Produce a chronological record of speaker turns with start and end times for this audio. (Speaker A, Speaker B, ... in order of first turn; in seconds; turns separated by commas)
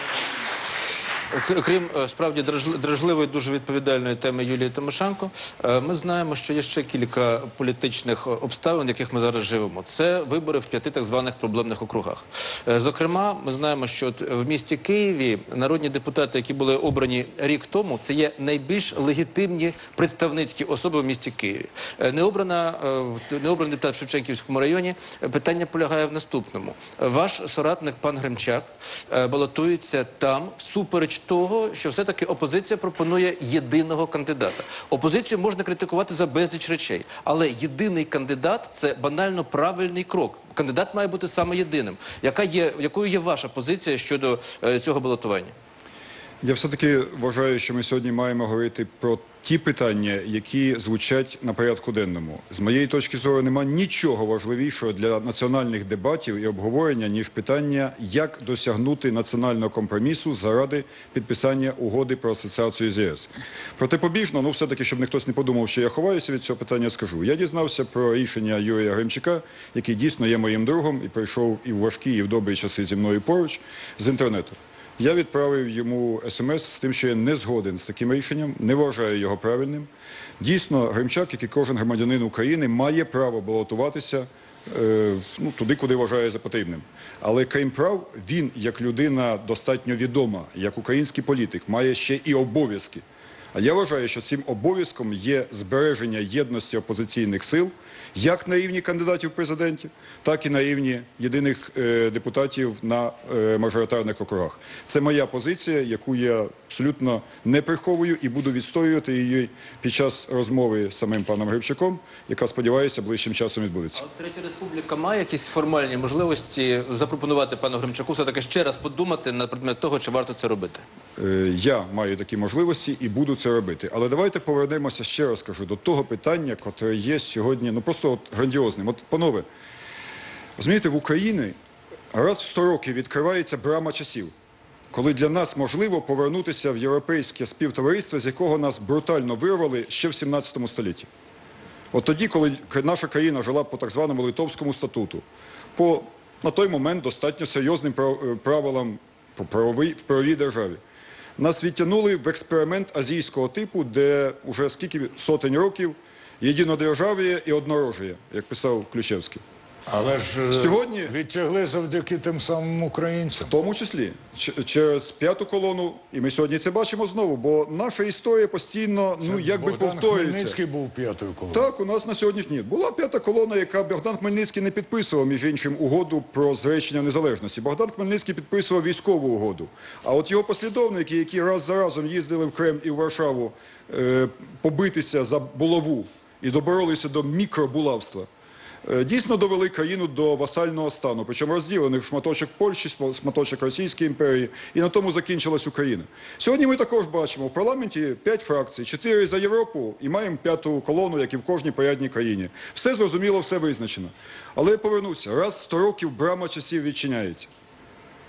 Speaker A: 1.3-45.5, Speaker B: 46.4-79.9, Speaker B: 80.4-114.0, Speaker A: 114.0-120.8, Speaker B: 121.2-129.4, Speaker B: 130.6-131.5, Speaker B: 132.1-134.3, Speaker B: 134.9-141.1, Speaker B: 141.9-145.2, Speaker B: 145.8-150.8, Speaker B: 151.4-159.4, Speaker C: 159.9-163.5, Speaker B: 160.5-161.1, Speaker B: 163.5-170.6, Speaker C: 169.2-171.7, Speaker B: 171.5-188.3, Speaker B: 188.8-207.5